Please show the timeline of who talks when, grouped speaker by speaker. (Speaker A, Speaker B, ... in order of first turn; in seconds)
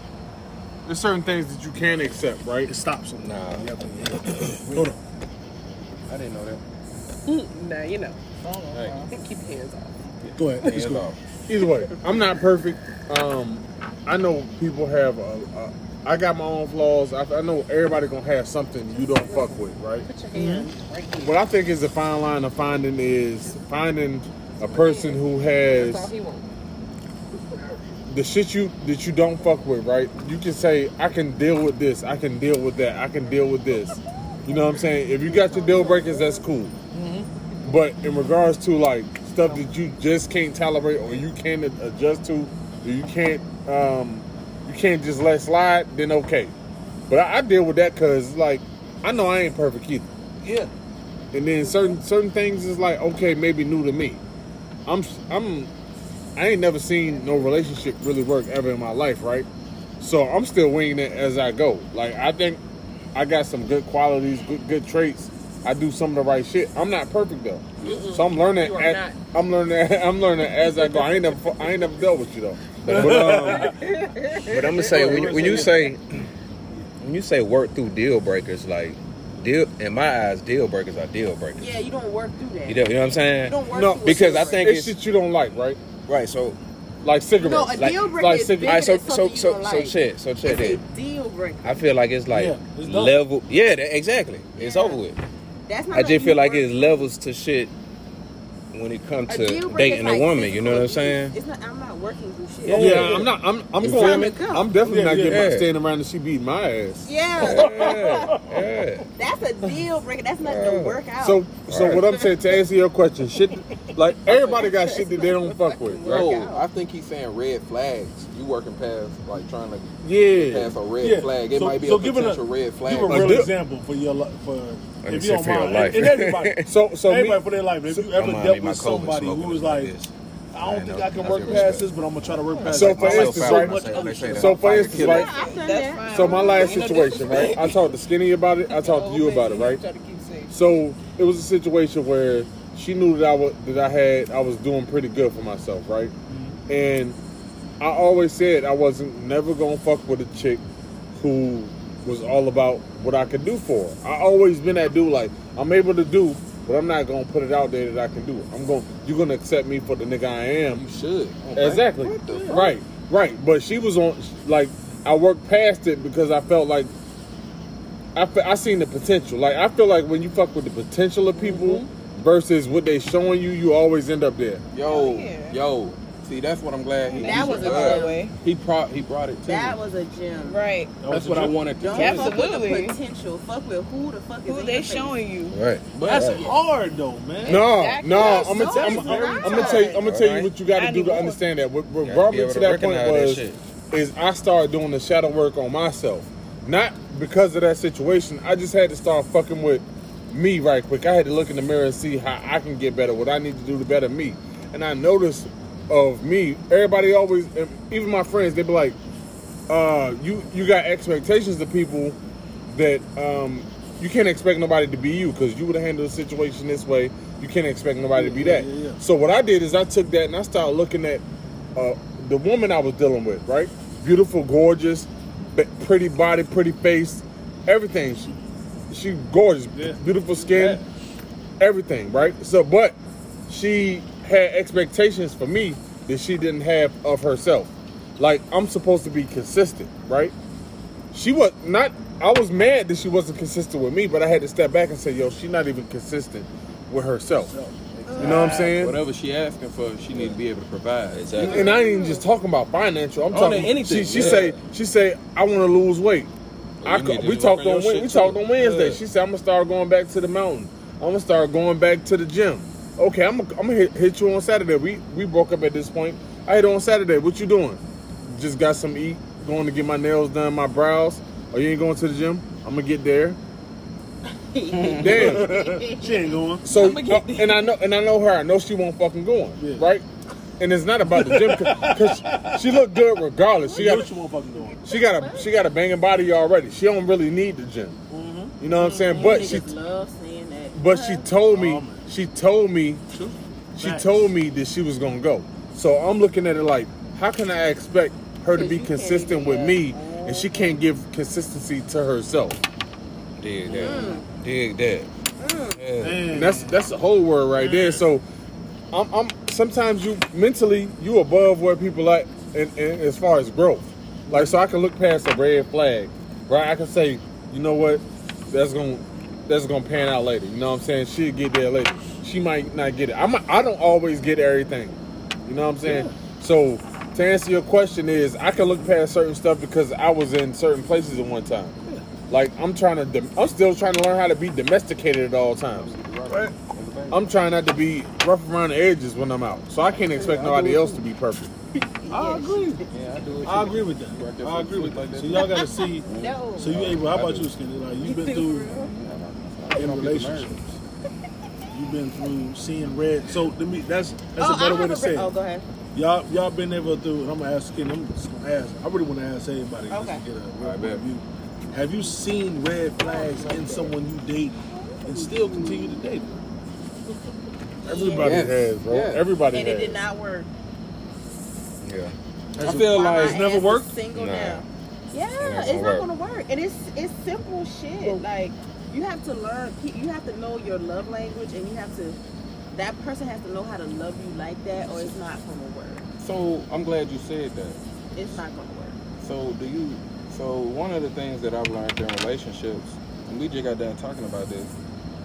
Speaker A: 0.9-2.8, 11.5-20.1, 21.2-26.1, 28.1-36.8, 37.6-46.5, 47.1-50.1, 51.3-54.2, 54.9-55.7, 56.4-59.5, 60.0-62.6, 63.1-73.7, 74.9-75.6, 83.7-85.8, 87.0-88.8, 100.6-100.9, 102.7-108.3, 111.2-116.3, 120.0-120.8, 123.1-123.5, 126.6-127.9, 132.7-135.4, 136.1-139.8, 140.5-146.1, 146.7-147.2, 147.8-150.6, 151.1-160.8, 161.6-166.9, 168.2-174.7, 187.4-209.0, 209.7-212.2, 212.7-221.2, 221.8-228.4, 228.9-230.8, 231.6-233.0, 233.5-240.3, 241.1-247.5, 248.2-249.0, 251.4-256.3, 256.8-273.4, 275.0-275.5, 276.6-280.1, 280.6-284.2, 284.8-288.0, 288.6-289.7, 290.7-293.1, 293.8-302.6, 306.3-308.2, 308.9-336.0, 337.1-341.5, 367.8-370.0
Speaker B: 2.7-5.0, 10.2-11.1, 20.3-20.7, 50.4-50.7, 72.9-73.8, 74.5-76.9, 92.3-93.1, 102.7-103.3, 104.8-105.5, 107.6-108.7, 121.0-129.9, 130.5-134.6, 146.3-146.6, 162.2-162.5, 181.0-181.7, 186.1-187.7, 188.6-189.7, 218.1-219.0, 229.7-230.8, 247.5-248.8, 275.1-276.8, 279.6-279.9, 281.1-282.7, 283.7-284.9, 288.1-289.6, 291.5-292.1, 293.1-294.3, 306.0-306.9, 325.8-326.2, 331.8-332.1, 336.3-336.6, 342.1-342.6, 343.4-348.8, 349.7-350.8, 351.7-355.4, 355.9-366.3, 372.6-374.0
Speaker C: 3.2-4.9, 6.1-6.6, 8.7-9.1, 72.8-73.8, 74.5-76.2, 77.0-81.7, 82.7-85.0, 86.1-86.6, 88.6-90.8, 91.6-95.2, 95.9-97.7, 98.7-101.3, 103.8-104.3, 105.2-105.7, 107.4-109.1, 110.4-111.0, 111.7-112.1, 125.0-126.7, 128.0-135.3, 161.4-162.7, 185.5-186.5, 189.9-190.5, 192.0-193.6, 250.1-250.4, 251.1-251.8, 254.1-254.5, 256.8-259.0, 303.4-305.1, 305.8-306.3, 368.2-369.3, 371.8-372.1, 374.1-374.6, 375.4-376.1
Speaker D: 7.3-8.2, 9.1-10.2, 18.9-21.4, 24.6-25.2, 25.7-26.5, 35.3-36.1, 67.8-69.2
Speaker E: 10.6-11.2, 116.0-123.5, 134.6-135.2, 160.7-161.5, 162.5-162.7, 174.7-179.8, 181.1-182.4, 185.9-186.5, 248.2-251.8, 253.3-254.6, 274.7-275.4, 335.7-337.3, 340.0-341.0, 342.2-347.5, 348.6-350.7, 360.6-361.1, 372.6-373.5, 386.2-388.4, 389.2-394.7
Speaker F: 73.7-74.5, 81.6-84.7, 87.4-91.8, 94.6-95.0, 95.7-97.1, 99.3-103.2, 103.8-104.7, 107.0-108.3, 109.1-111.5, 114.3-115.3, 115.9-116.6, 133.9-137.0, 177.2-178.3, 179.5-180.6, 181.8-185.2, 188.1-190.1, 248.1-248.6, 251.4-252.2, 274.3-276.3, 283.7-284.1, 284.9-285.5, 289.1-291.3, 298.5-300.8, 303.7-304.3, 305.4-305.8, 342.0-342.9, 354.4-355.6, 359.9-360.2, 363.0-363.9, 364.7-366.0, 367.9-368.5, 369.5-370.5, 372.7-382.2, 382.7-386.1, 388.1-389.0
Speaker G: 114.5-116.0, 135.0-137.9, 138.6-140.6, 171.5-171.9, 174.8-175.6, 177.0-178.4, 180.4-181.0, 181.9-183.0, 184.5-185.6, 187.4-189.9, 190.6-191.4, 276.7-277.7, 345.4-346.8, 348.1-348.9